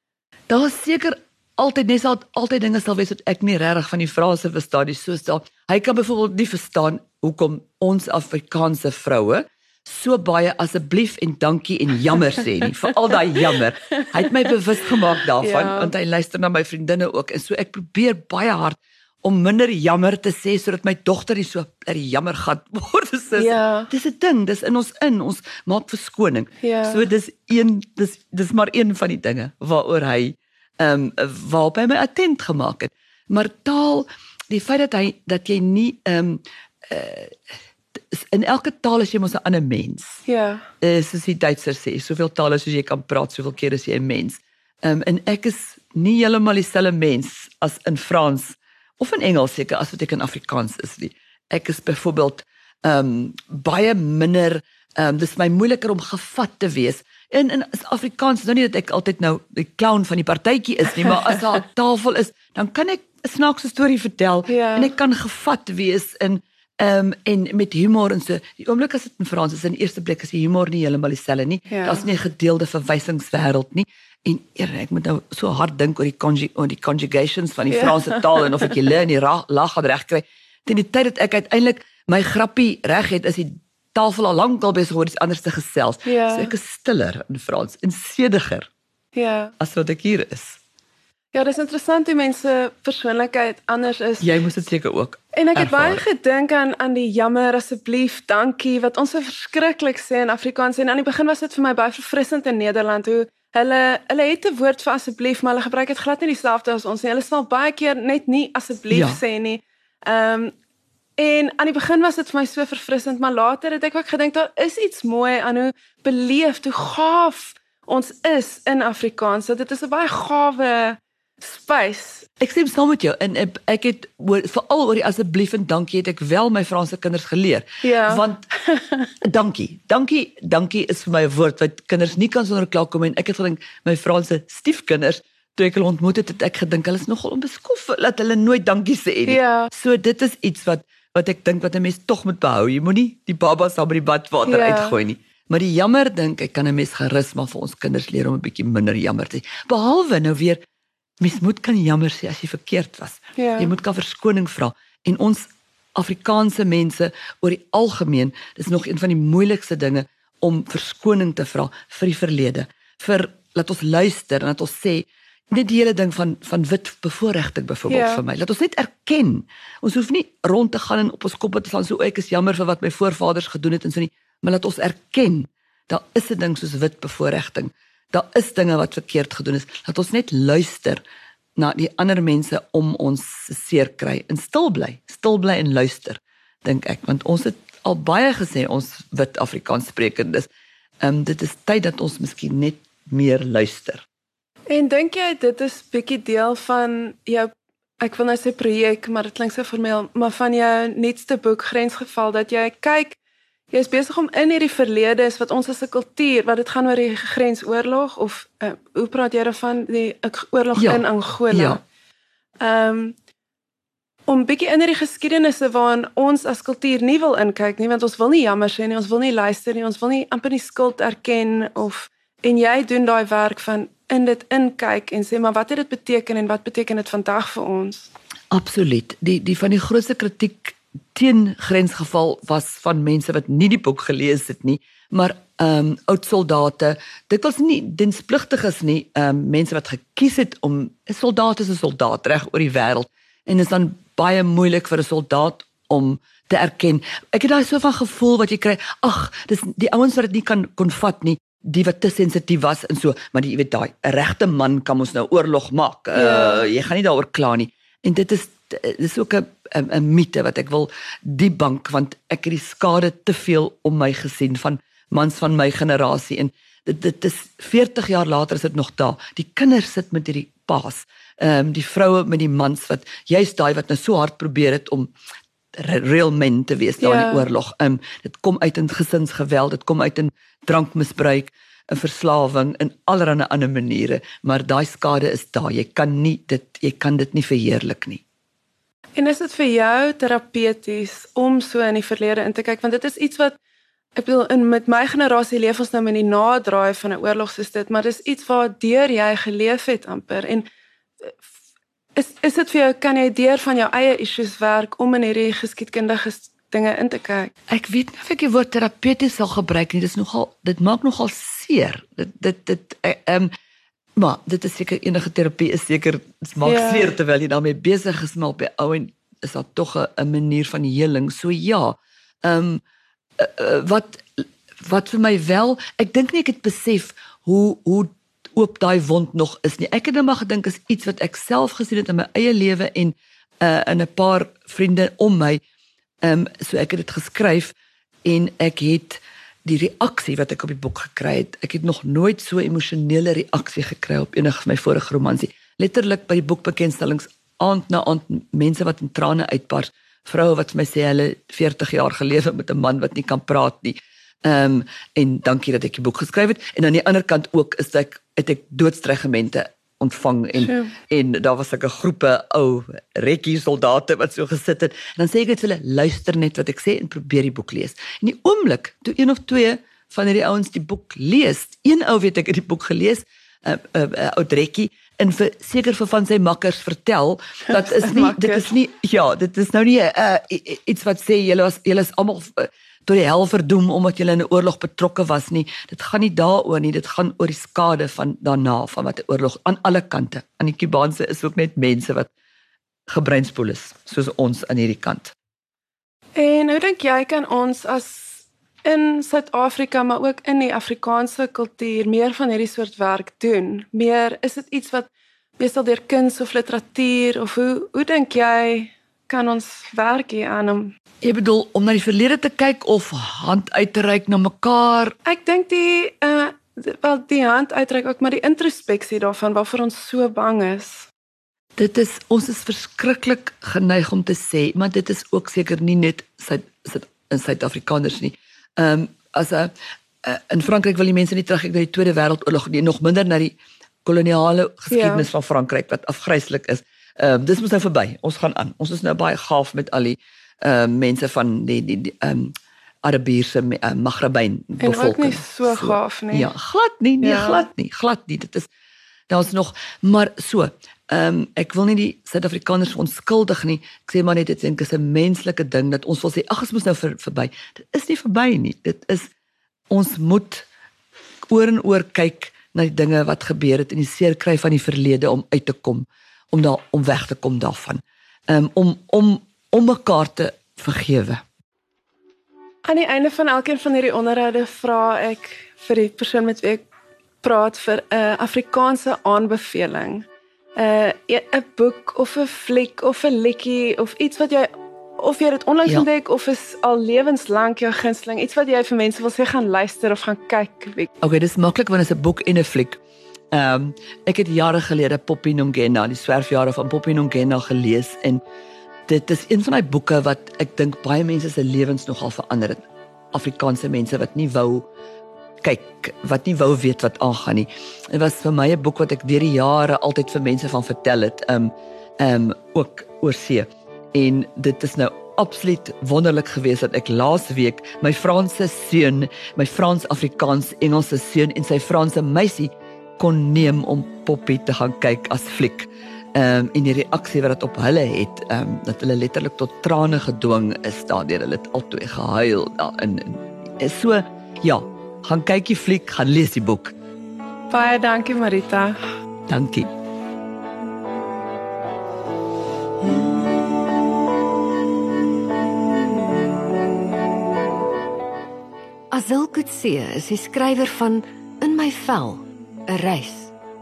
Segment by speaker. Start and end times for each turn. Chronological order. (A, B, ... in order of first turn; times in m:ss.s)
0:00.5-0:37.4 A
0:15.4-0:15.9 B
0:23.4-0:23.9 B
0:26.6-0:27.1 B
0:38.1-0:40.2 A
0:40.3-0:40.6 B
0:40.8-1:28.7 A
1:04.5-1:04.9 B
1:11.7-1:12.0 B
1:17.7-1:18.4 B
1:26.0-1:26.5 B
1:29.2-1:29.5 B
1:29.6-1:30.6 A
1:31.3-1:34.3 B
1:34.2-1:36.0 A
1:35.3-1:50.5 B
1:48.9-1:49.2 A
1:51.2-2:02.3 B
2:02.4-2:08.4 A
2:07.8-2:09.1 B
2:09.2-2:30.6 A
2:19.3-2:19.7 B
2:24.4-2:25.0 B
2:31.2-3:01.0 A
2:33.4-2:33.7 B
2:47.9-2:48.2 B
3:01.6-3:10.5 A
3:11.0-3:14.0 A
3:14.7-3:23.2 B
3:23.7-3:31.8 B
3:30.8-3:31.8 A
3:32.6-3:33.2 B
3:34.3-3:48.1 B
3:48.5-4:35.1 A
4:16.1-4:16.7 B
4:35.8-4:48.2 A
4:37.0-4:37.4 B
4:49.2-4:53.6 B
4:54.2-5:00.7 B
5:02.2-5:07.5 B
5:07.7-5:13.5 A
5:14.2-5:22.8 A
5:16.6-5:17.1 B
5:23.4-5:35.6 A
5:36.2-6:32.3 A
6:00.6-6:00.9 B
6:17.7-6:18.7 B
6:33.1-6:35.3 A
6:36.4-6:51.0 B
6:51.2-6:55.2 A
6:55.3-7:01.1 B
7:01.8-7:28.7 A
7:14.9-7:15.3 B
7:24.8-7:26.5 B
7:27.2-7:27.7 B
7:29.3-7:39.3 A
7:39.9-7:40.7 A
7:41.5-7:51.4 A
7:52.8-7:56.8 B
7:57.4-8:11.1 B
8:11.2-8:13.0 A
8:13.5-8:18.4 A
8:19.1-8:24.9 A
8:25.6-8:57.0 A
8:57.7-8:59.0 B
8:59.5-8:59.9 A
9:09.1-9:13.5 C